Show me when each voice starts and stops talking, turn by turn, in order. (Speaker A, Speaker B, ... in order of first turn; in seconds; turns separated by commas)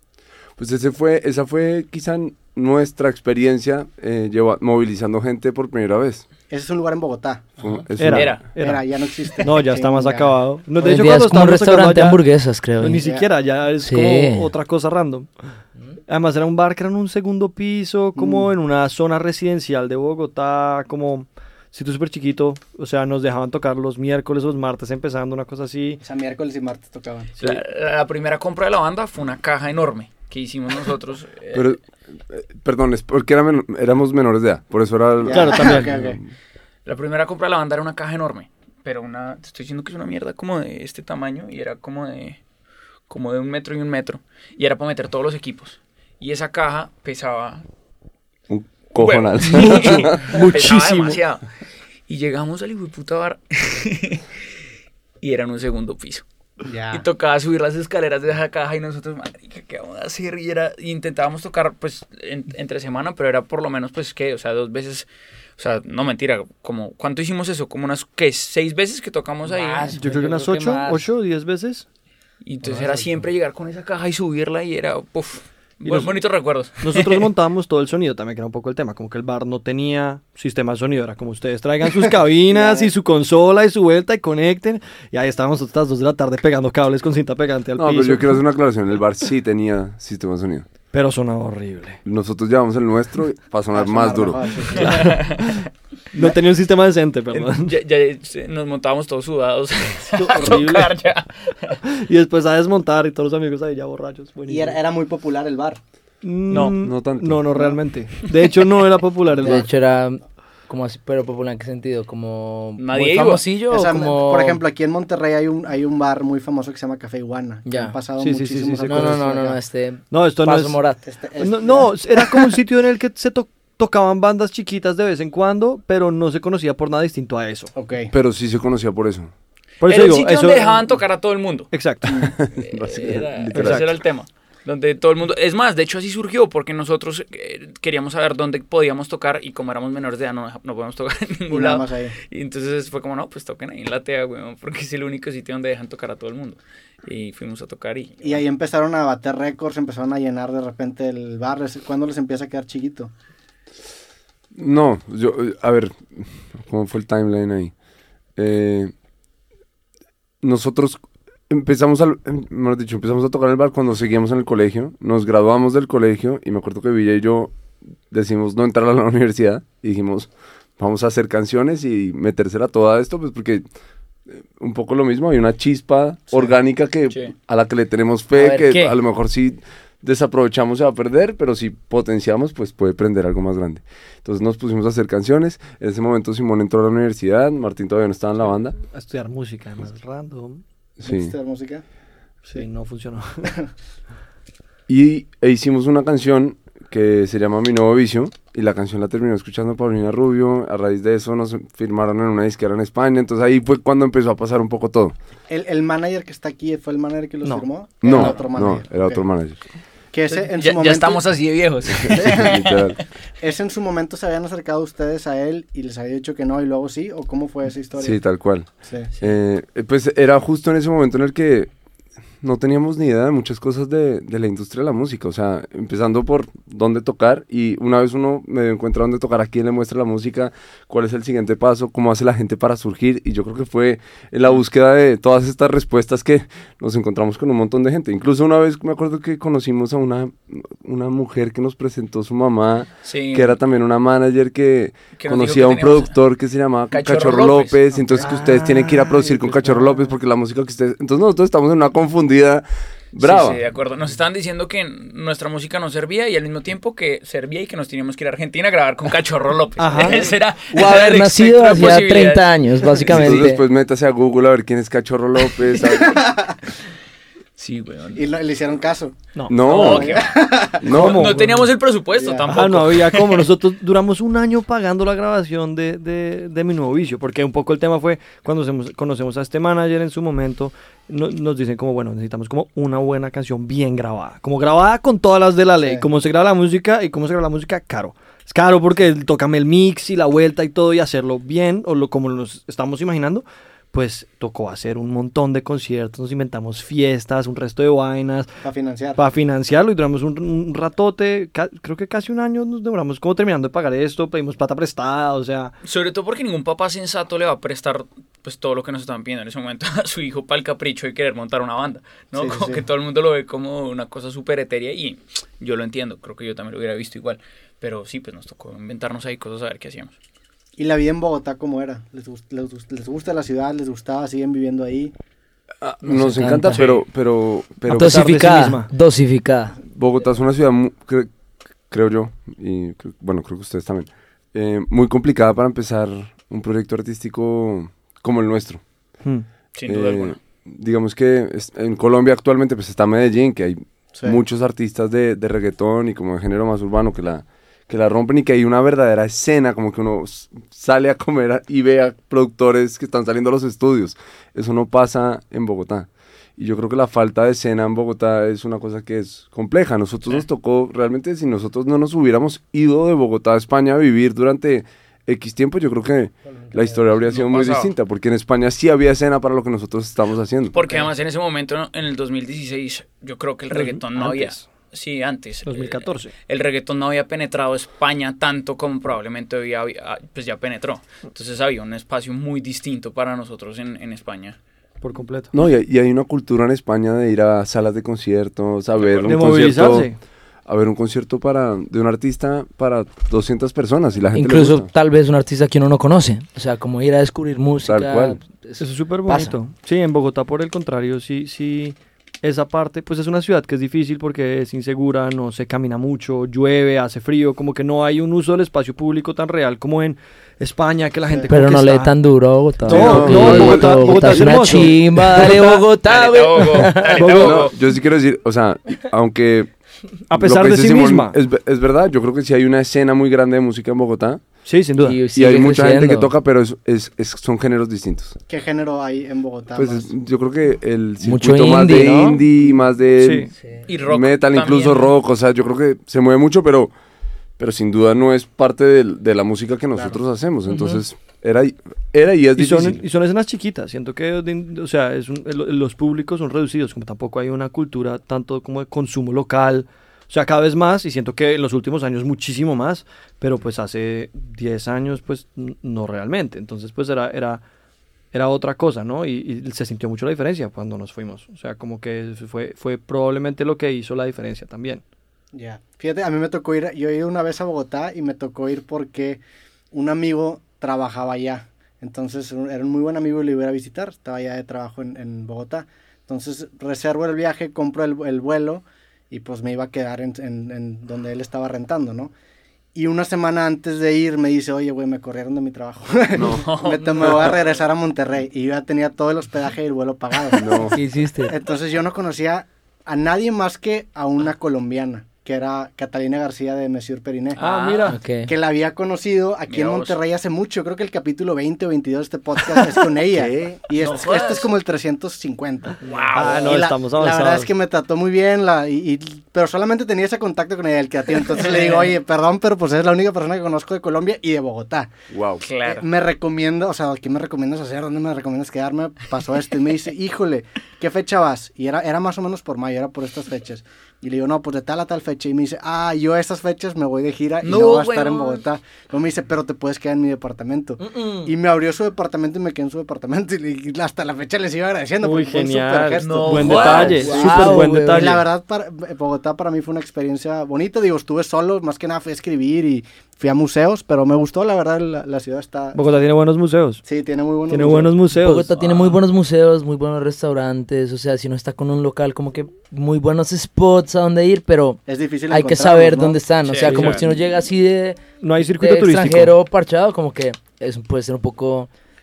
Speaker A: 0.6-6.2, Speaker B: 6.5-7.5, Speaker A: 7.6-8.3, Speaker C: 8.0-8.8, Speaker D: 8.1-8.4, Speaker B: 8.6-10.3, Speaker C: 9.4-12.2, Speaker E: 10.8-13.0, Speaker C: 12.8-15.3, Speaker B: 13.0-13.3, Speaker E: 13.8-14.5, Speaker C: 16.1-26.0, Speaker B: 18.1-18.5, Speaker B: 26.0-27.3, Speaker D: 27.4-31.8, Speaker A: 31.5-36.3, Speaker B: 35.2-36.2, Speaker C: 35.3-35.9, Speaker D: 36.9-42.4, Speaker D: 43.1-47.6, Speaker A: 48.5-50.5, Speaker D: 49.0-51.4, Speaker C: 49.4-51.2, Speaker D: 52.1-54.4, Speaker D: 55.2-56.2, Speaker B: 56.6-57.0, Speaker D: 56.9-70.0, Speaker E: 69.5-71.0, Speaker C: 69.9-71.8, Speaker D: 72.4-77.3, Speaker B: 72.6-73.2, Speaker C: 75.8-76.2, Speaker C: 76.8-88.4, Speaker B: 82.5-82.9, Speaker A: 87.8-90.7, Speaker C: 90.9-92.0, Speaker A: 92.0-94.4, Speaker B: 93.7-95.2, Speaker D: 94.7-95.6, Speaker C: 95.4-97.7, Speaker D: 97.3-101.8, Speaker C: 100.1-100.9, Speaker C: 101.8-104.8, Speaker B: 104.5-105.8, Speaker C: 106.2-109.5, Speaker D: 106.5-106.8, Speaker A: 106.8-107.4, Speaker D: 108.3-108.7, Speaker E: 109.4-114.6, Speaker D: 112.8-113.4, Speaker B: 113.7-119.6, Speaker E: 117.7-118.0, Speaker C: 118.2-119.2, Speaker E: 118.9-121.1, Speaker C: 120.1-120.8, Speaker B: 121.0-122.5, Speaker C: 121.4-127.7, Speaker B: 127.7-128.1, Speaker A: 128.1-129.3, Speaker C: 129.8-130.8, Speaker D: 129.8-148.4, Speaker C: 131.7-132.1, Speaker A: 132.3-133.9, Speaker C: 133.5-133.8, Speaker B: 141.5-142.1, Speaker B: 148.2-153.1, Speaker A: 154.5-157.7, Speaker A: 158.4-158.9, Speaker A: 160.4-161.0, Speaker A: 161.5-167.5, Speaker A: 168.1-173.7, Speaker A: 174.3-188.8, Speaker E: 178.3-178.9, Speaker C: 188.8-190.6, Speaker A: 191.0-191.3, Speaker B: 191.0-191.8, Speaker C: 192.4-193.5, Speaker A: 194.9-205.1, Speaker B: 205.5-209.2, Speaker A: 208.0-209.6, Speaker D: 208.1-208.4, Speaker B: 210.1-211.2, Speaker D: 210.3-213.0, Speaker A: 212.0-213.0, Speaker B: 212.1-212.6, Speaker B: 213.4-218.2, Speaker A: 218.0-218.7, Speaker B: 218.8-219.1, Speaker A: 219.2-221.7, Speaker A: 222.4-253.6, Speaker D: 243.0-243.6, Speaker D: 245.1-246.1, Speaker D: 246.9-247.8, Speaker B: 247.9-248.4, Speaker C: 248.2-250.1, Speaker D: 253.2-263.2, Speaker C: 259.8-260.3, Speaker E: 260.7-263.6, Speaker A: 263.1-266.2, Speaker B: 266.0-266.5, Speaker D: 267.6-268.2, Speaker B: 268.1-270.9, Speaker C: 269.3-269.6, Speaker A: 269.5-270.2, Speaker D: 269.7-273.5, Speaker A: 270.8-271.3, Speaker C: 270.9-271.7, Speaker B: 272.1-272.5, Speaker C: 272.5-298.6, Speaker B: 298.6-299.2, Speaker C: 299.1-305.8, Speaker D: 305.8-320.1, Speaker B: 312.4-312.8, Speaker B: 320.8-325.1, Speaker A: 325.8-328.4, Speaker E: 326.0-326.8, Speaker D: 326.7-327.1, Speaker C: 327.9-328.9, Speaker E: 327.9-329.8, Speaker A: 329.9-331.3, Speaker A: 331.9-338.8, Speaker D: 339.8-340.4, Speaker A: 339.9-370.8, Speaker B: 366.5-367.1, Speaker D: 367.2-367.9, Speaker D: 370.7-384.6, Speaker C: 373.7-374.7, Speaker C: 375.6-376.3, Speaker C: 385.0-385.5, Speaker A: 385.5-390.1, Speaker D: 388.9-389.5, Speaker C: 389.2-390.2, Speaker A: 390.7-394.9, Speaker E: 394.3-399.6, Speaker A: 397.8-398.4, Speaker C: 398.8-412.1, Speaker E: 411.5-417.2, Speaker A: 412.8-414.0, Speaker C: 412.9-415.8, Speaker D: 416.0-417.8, Speaker C: 417.1-417.7, Speaker A: 417.3-419.7, Speaker C: 420.3-421.4, Speaker A: 420.3-424.4, Speaker C: 424.6-425.2, Speaker E: 425.0-426.3, Speaker A: 425.3-428.3, Speaker B: 428.5-430.1, Speaker A: 429.7-433.5, Speaker E: 431.2-432.1, Speaker C: 432.0-432.3, Speaker C: 433.2-433.5, Speaker E: 433.6-433.8, Speaker D: 433.9-435.1, Speaker A: 434.0-436.9, Speaker A: 437.6-443.0, Speaker E: 440.7-441.0, Speaker C: 442.6-457.6, Speaker C: 458.3-465.0, Speaker B: 465.5-482.3, Speaker B: 482.9-497.7, Speaker A: 486.4-486.7, Speaker D: 486.4-487.6, Speaker A: 490.5-491.0, Speaker E: 490.9-491.5, Speaker D: 497.5-498.2, Speaker C: 497.6-498.1, Speaker E: 498.0-498.5, Speaker B: 498.4-515.1, Speaker D: 499.7-500.2, Speaker A: 503.3-503.7, Speaker D: 504.0-504.7, Speaker D: 506.0-506.7, Speaker C: 506.3-507.7, Speaker A: 515.3-515.6, Speaker D: 515.6-516.0, Speaker B: 515.8-546.0, Speaker D: 527.6-528.6, Speaker E: 531.0-531.5, Speaker C: 535.2-538.4, Speaker D: 536.1-537.2, Speaker E: 536.9-538.3, Speaker C: 545.9-547.0, Speaker B: 547.0-548.1, Speaker C: 547.7-548.7, Speaker E: 548.3-558.2, Speaker D: 548.8-549.2, Speaker B: 555.0-556.4, Speaker D: 556.6-557.3, Speaker C: 556.9-557.2, Speaker C: 558.4-559.5, Speaker E: 558.7-561.9